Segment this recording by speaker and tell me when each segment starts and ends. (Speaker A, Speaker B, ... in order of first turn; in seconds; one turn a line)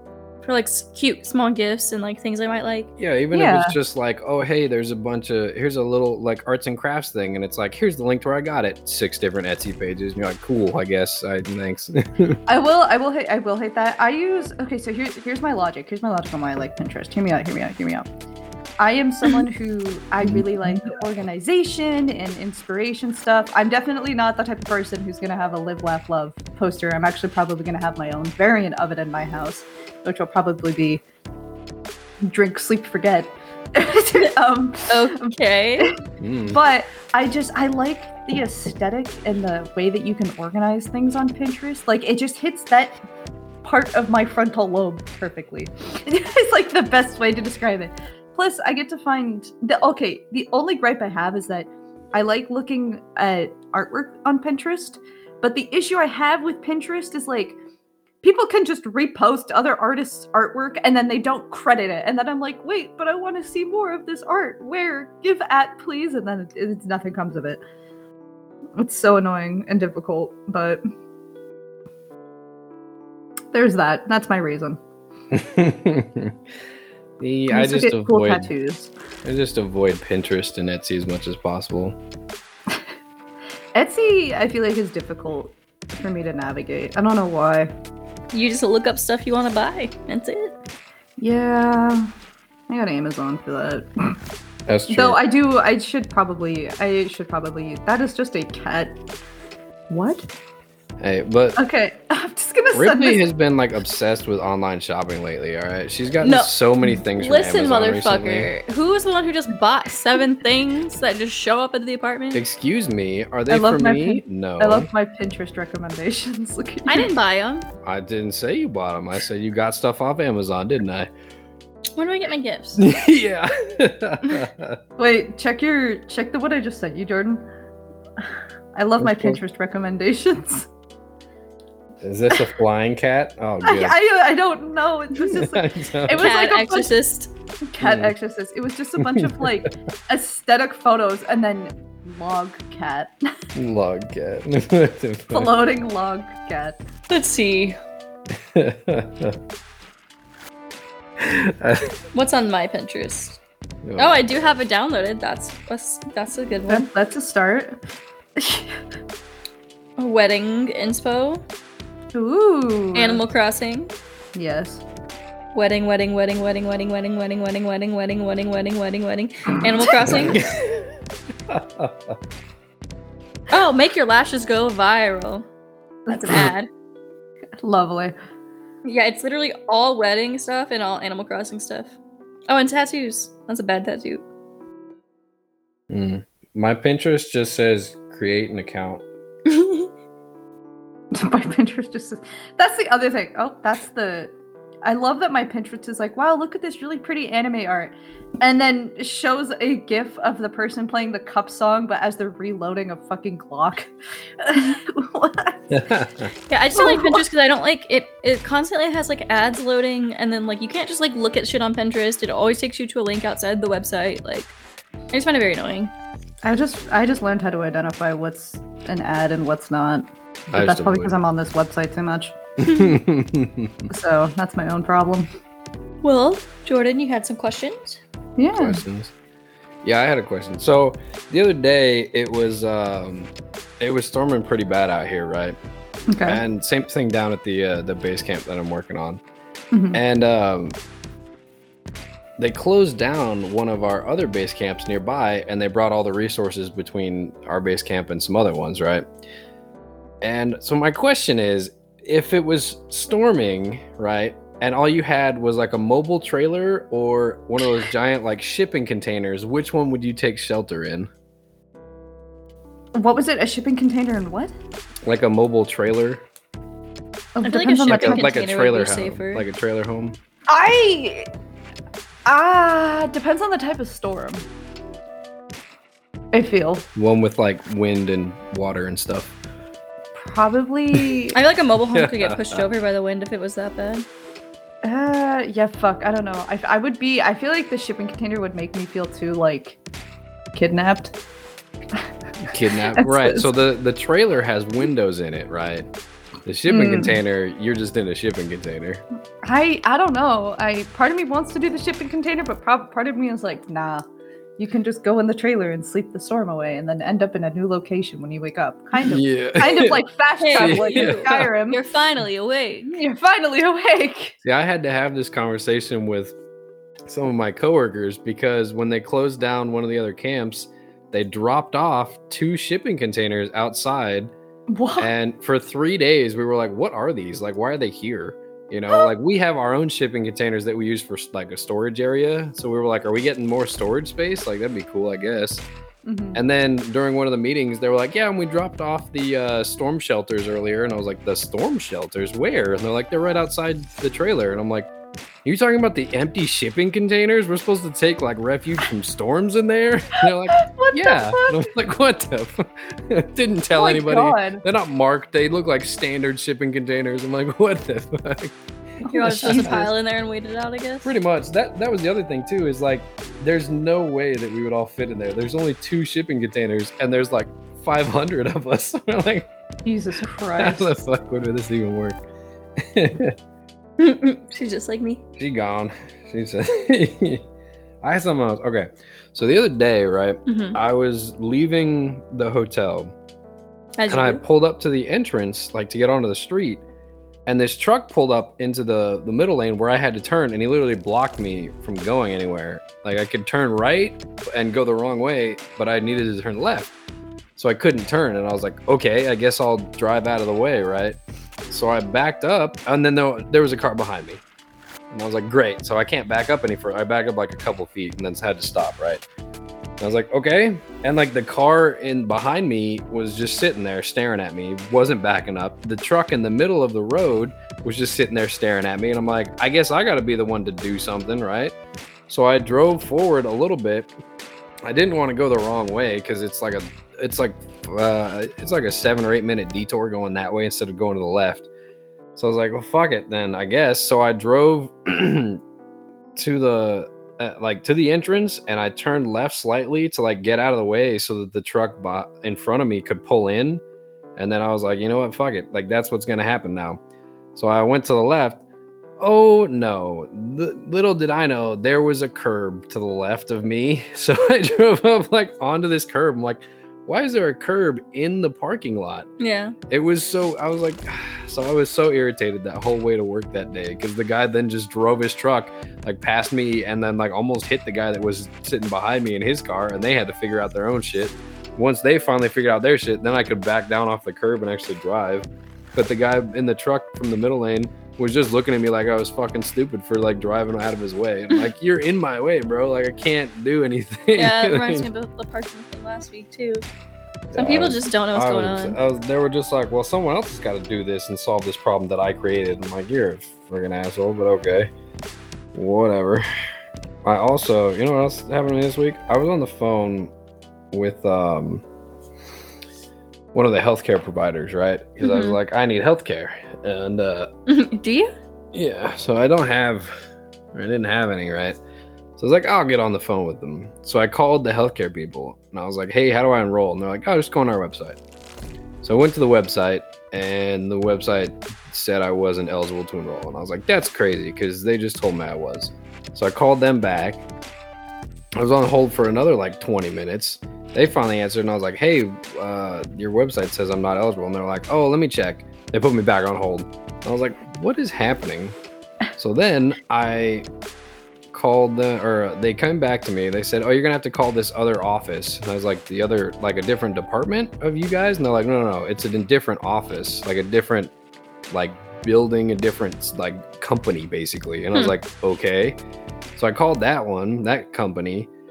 Speaker A: 0.4-2.9
Speaker B: 3.0-12.4
Speaker C: 3.3-3.7
Speaker C: 12.5-18.1
Speaker C: 18.8-31.0
Speaker B: 20.2-20.8
Speaker C: 32.2-35.9
Speaker A: 34.9-35.9
Speaker B: 36.2-36.6
Speaker C: 36.5-43.0
Speaker C: 43.6-57.6
Speaker C: 58.2-67.6
Speaker C: 68.8-70.8
Speaker C: 73.5-74.8
Speaker B: 75.3-76.4
Speaker B: 77.2-78.5
Speaker C: 77.5-78.9
Speaker B: 79.2-82.0
Speaker C: 83.7-87.7
Speaker A: 88.3-90.5
Speaker C: 91.2-92.1
Speaker C: 92.7-94.2
Speaker B: 94.7-95.2
Speaker C: 94.9-99.0
Speaker C: 99.9-100.2
Speaker B: 101.0-101.6
Speaker C: 101.5-103.2
Speaker B: 102.7-108.5
Speaker A: 106.2-106.5
Speaker A: 107.1-112.4
Speaker B: 112.3-114.9
Speaker C: 113.5-117.1
Speaker A: 116.8-117.7
Speaker B: 117.8-121.1
Speaker A: 122.0-122.8
Speaker B: 122.8-124.8
Speaker C: 125.0-127.5
Speaker C: 128.7-130.7
Speaker B: 129.0-129.4
Speaker B: 132.0-134.0
Speaker C: 133.6-136.9
Speaker B: 135.1-136.3
Speaker A: 136.2-137.3
Speaker C: 137.7-143.1
Speaker B: 137.8-138.1
Speaker B: 139.0-139.5
Speaker B: 143.5-145.5
Speaker C: 145.3-146.8
Speaker A: 147.1-147.8
Speaker B: 148.5-149.4
Speaker B: 151.2-151.9
Speaker A: 152.1-153.4
Speaker B: 153.8-154.6
Speaker A: 154.0-156.9
Speaker C: 156.7-157.8
Speaker C: 158.4-158.7
Speaker A: 160.0-161.4
Speaker C: 162.1-163.2
Speaker A: 162.9-163.9
Speaker C: 164.3-164.8
Speaker A: 165.5-170.4
Speaker B: 170.1-170.9
Speaker B: 171.5-172.2
Speaker A: 173.5-175.4
Speaker A: 176.1-176.7
Speaker C: 176.1-176.5
Speaker C: 177.6-178.1
Speaker A: 178.8-181.9
Speaker A: 182.5-184.2
Speaker B: 185.9-189.0
Speaker A: 189.5-189.9
Speaker C: 191.1-194.3
Speaker C: 194.8-205.8
Speaker B: 205.7-206.3
Speaker A: 206.5-214.5
Speaker C: 206.7-207.2
Speaker A: 215.1-215.9
Speaker C: 216.4-222.3
Speaker B: 220.5-221.1
Speaker B: 222.6-223.9
Speaker A: 222.6-222.9
Speaker C: 223.9-225.3
Speaker A: 226.0-228.0
Speaker C: 228.4-228.8
Speaker B: 228.6-229.1
Speaker B: 229.8-235.6
Speaker C: 236.1-236.4
Speaker B: 236.2-239.2
Speaker C: 239.7-240.0
Speaker B: 239.9-240.8
Speaker B: 242.4-249.1
Speaker B: 250.2-261.1
Speaker C: 262.9-264.5
Speaker B: 265.1-266.2
Speaker C: 267.4-268.2
Speaker A: 267.4-269.4
Speaker B: 267.9-270.2
Speaker C: 270.5-271.3
Speaker C: 272.2-274.4
Speaker C: 276.3-276.9
Speaker B: 276.9-279.3
Speaker C: 280.1-281.4
Speaker A: 281.3-284.1
Speaker B: 281.9-282.6
Speaker C: 284.8-289.8
Speaker C: 290.5-291.1
Speaker B: 292.5-295.9
Speaker C: 292.9-293.5
Speaker B: 296.4-299.0
Speaker C: 296.7-297.2
Speaker C: 299.4-304.0
Speaker C: 304.6-311.8
Speaker B: 309.0-310.0
Speaker A: 310.4-312.9
Speaker B: 310.5-311.5
Speaker C: 312.9-314.4
Speaker B: 314.4-316.4
Speaker B: 317.1-324.3
Speaker C: 324.7-325.1
Speaker B: 325.0-335.6
Speaker C: 336.0-336.4
Speaker B: 336.3-344.9
Speaker B: 345.4-358.6
Speaker C: 350.5-351.7
Speaker C: 353.7-354.6
Speaker C: 359.0-359.8
Speaker A: 359.1-361.1
Speaker B: 359.4-359.9
Speaker B: 361.0-369.5
Speaker C: 369.8-370.9
Speaker B: 370.6-372.2
Speaker B: 372.8-373.3
Speaker A: 374.0-375.2
Speaker B: 375.4-377.4
Speaker B: 378.0-383.1
Speaker A: 380.4-380.8
Speaker A: 384.0-384.4
Speaker B: 384.1-386.8
Speaker B: 387.4-396.9
Speaker B: 397.6-401.2
Speaker B: 401.7-404.4
Speaker B: 405.1-409.2
Speaker B: 410.0-421.7
Speaker B: 422.3-424.1
Speaker B: 424.8-431.7
Speaker B: 432.4-435.6
Speaker B: 436.4-443.8
Speaker B: 444.4-447.0
Speaker B: 447.5-448.6
Speaker B: 449.2-459.3
Speaker A: 459.4-459.8
Speaker B: 459.9-485.1
Speaker A: 484.3-486.8
Speaker B: 487.5-494.9
Speaker A: 487.5-489.0
Speaker B: 495.7-496.4
Speaker B: 497.2-500.3
Speaker B: 500.9-501.8
Speaker B: 503.5-507.5
Speaker A: 505.2-505.6
Speaker A: 507.7-508.3
Speaker B: 508.7-510.1
Speaker B: 510.7-511.8
Speaker B: 512.4-518.2
Speaker B: 519.0-527.4
Speaker B: 528.6-538.8
Speaker B: 539.4-540.7
Speaker B: 541.5-551.1
Speaker B: 551.7-556.0
Speaker B: 556.6-558.5